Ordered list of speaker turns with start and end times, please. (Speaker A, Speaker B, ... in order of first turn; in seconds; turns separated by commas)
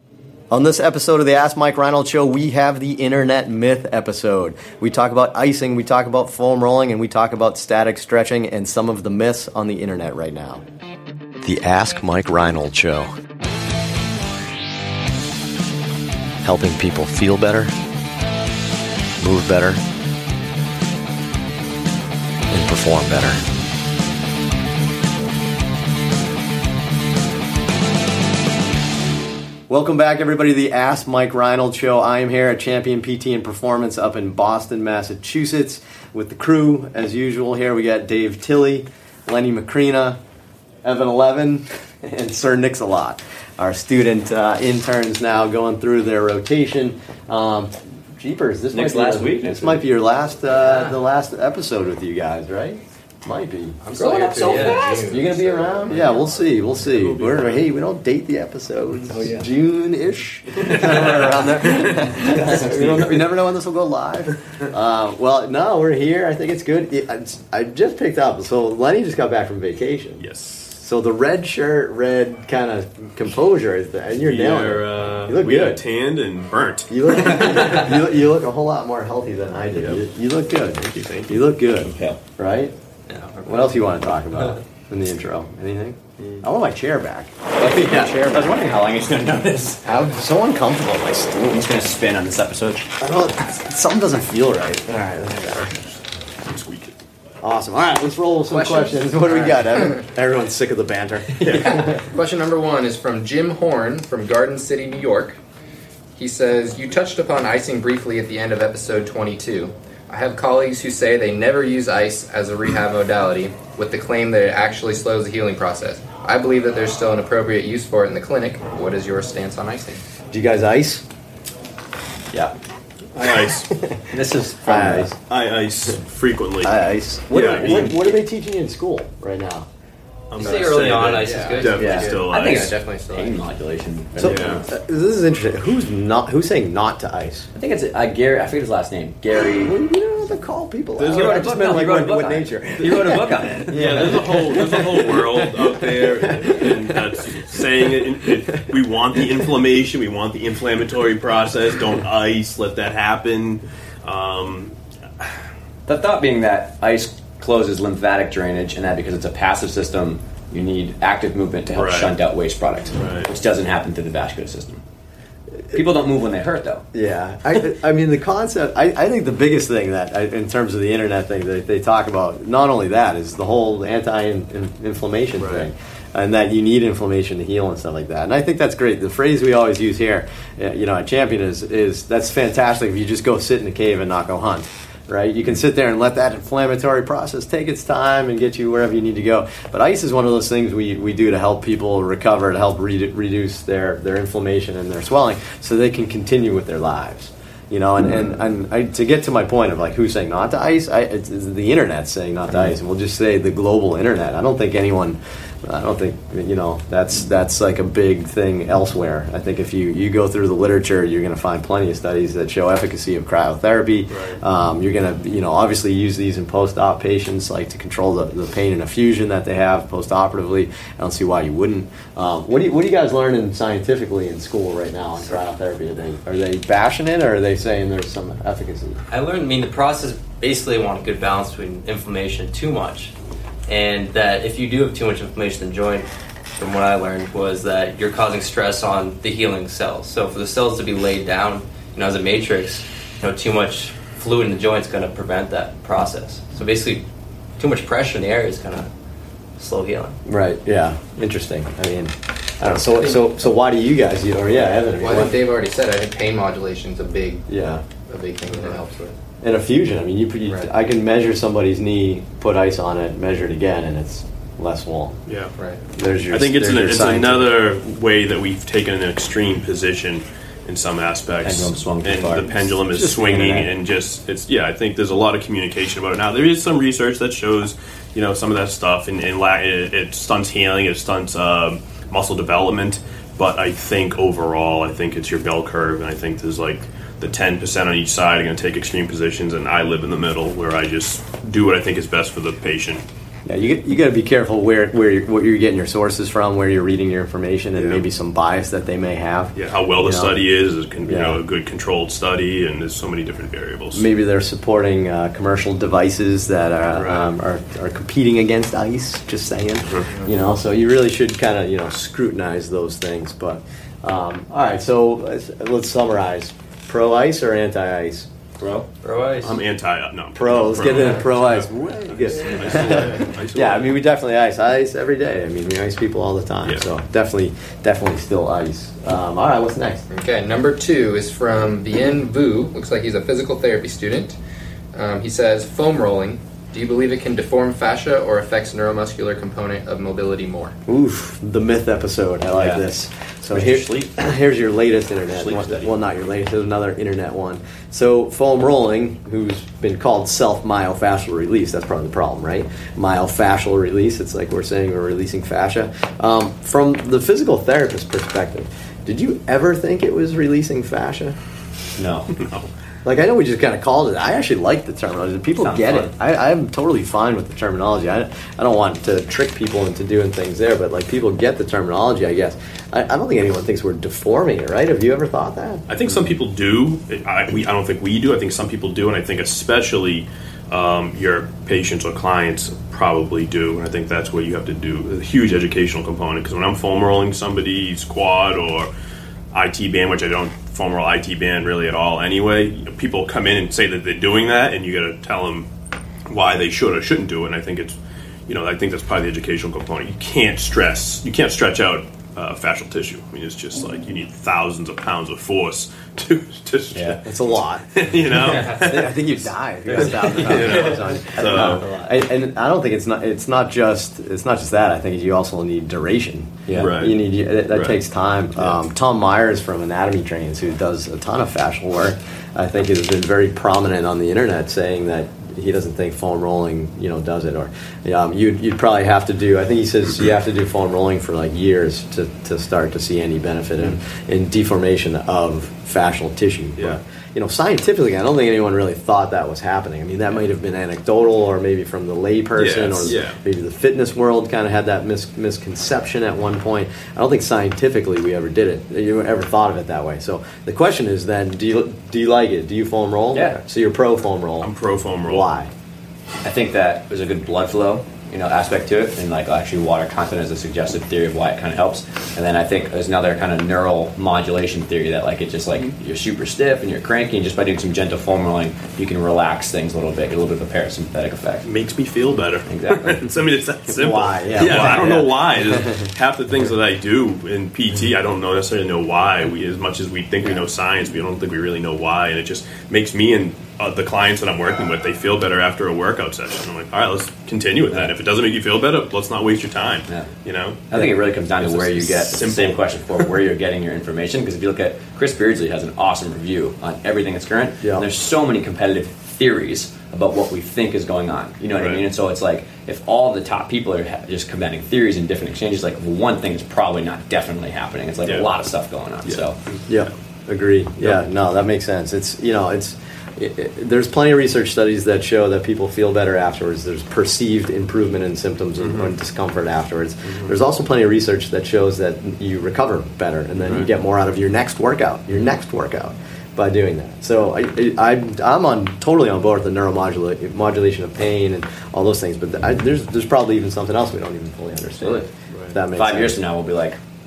Speaker A: 0.5-10.6, Speaker A: 11.4-13.1, Speaker A: 16.4-17.7, Speaker A: 19.2-19.8, Speaker A: 22.5-23.4, Speaker A: 29.7-40.2, Speaker A: 40.8-70.2, Speaker B: 48.7-49.8, Speaker C: 53.8-57.1, Speaker B: 54.0-55.0, Speaker B: 62.4-63.1, Speaker D: 70.2-70.8, Speaker A: 70.8-75.8, Speaker D: 74.2-77.4, Speaker A: 76.9-82.7, Speaker D: 79.7-80.0, Speaker D: 80.8-81.4, Speaker B: 81.8-82.2, Speaker E: 83.1-83.8, Speaker A: 83.5-88.5, Speaker B: 87.6-89.8, Speaker A: 89.8-91.6, Speaker B: 91.5-92.9, Speaker A: 93.0-95.7, Speaker D: 96.4-97.0, Speaker A: 97.4-102.0, Speaker C: 98.5-99.7, Speaker D: 101.4-101.8, Speaker C: 101.5-105.4, Speaker C: 106.2-120.0, Speaker A: 120.3-121.0, Speaker D: 123.1-123.7, Speaker A: 123.7-124.1, Speaker B: 124.1-125.1, Speaker A: 124.6-125.2, Speaker D: 125.3-126.8, Speaker A: 126.6-129.7, Speaker D: 127.3-128.1, Speaker D: 130.3-132.7, Speaker E: 130.4-132.1, Speaker C: 130.9-133.4, Speaker A: 131.8-132.1, Speaker B: 132.3-134.7, Speaker A: 134.2-137.5, Speaker D: 134.2-134.6, Speaker B: 137.5-139.8, Speaker A: 139.6-147.3, Speaker D: 141.0-141.4, Speaker B: 141.1-144.0, Speaker D: 143.7-155.3, Speaker B: 155.9-164.8, Speaker D: 161.7-162.1, Speaker D: 162.9-163.3, Speaker B: 165.7-166.8, Speaker A: 166.9-229.0, Speaker D: 175.4-175.7, Speaker D: 214.1-214.4, Speaker E: 229.1-233.1, Speaker E: 233.7-247.0, Speaker E: 247.6-248.9, Speaker E: 249.6-250.2, Speaker A: 250.2-255.3, Speaker C: 255.0-257.5, Speaker A: 257.5-257.8, Speaker C: 258.0-259.1, Speaker A: 259.4-265.1, Speaker D: 265.2-265.5, Speaker A: 265.9-267.5, Speaker D: 266.3-293.0, Speaker B: 271.4-272.6, Speaker A: 272.9-273.7, Speaker A: 293.4-300.4, Speaker D: 297.8-298.0, Speaker D: 299.5-304.1, Speaker A: 301.0-301.4, Speaker A: 303.9-318.3, Speaker D: 306.9-307.4, Speaker D: 309.8-310.1, Speaker B: 318.6-318.9, Speaker E: 319.0-319.5, Speaker D: 319.4-324.0, Speaker A: 320.3-330.0, Speaker D: 326.6-326.9, Speaker C: 330.1-334.4, Speaker C: 334.9-340.7, Speaker A: 340.9-361.4, Speaker B: 342.5-342.9, Speaker B: 343.5-344.2, Speaker B: 345.3-345.9, Speaker B: 362.0-362.3, Speaker D: 362.3-362.6, Speaker A: 363.0-375.8, Speaker B: 365.6-366.1, Speaker D: 375.9-388.9, Speaker D: 389.5-395.7, Speaker D: 396.3-409.3, Speaker A: 407.2-454.7, Speaker D: 409.9-411.9, Speaker E: 411.4-412.0, Speaker D: 416.7-418.0, Speaker D: 442.6-443.4, Speaker B: 453.3-453.6, Speaker D: 454.6-455.5, Speaker A: 455.2-455.7, Speaker B: 456.4-471.6, Speaker D: 471.6-491.1, Speaker B: 472.6-473.2, Speaker A: 473.9-476.0, Speaker B: 490.9-509.6, Speaker D: 491.6-493.3, Speaker A: 497.8-498.1, Speaker D: 501.7-502.0, Speaker D: 508.2-508.5, Speaker D: 509.2-510.0, Speaker A: 509.9-536.4, Speaker D: 518.8-519.1, Speaker B: 535.0-535.2, Speaker B: 535.9-537.0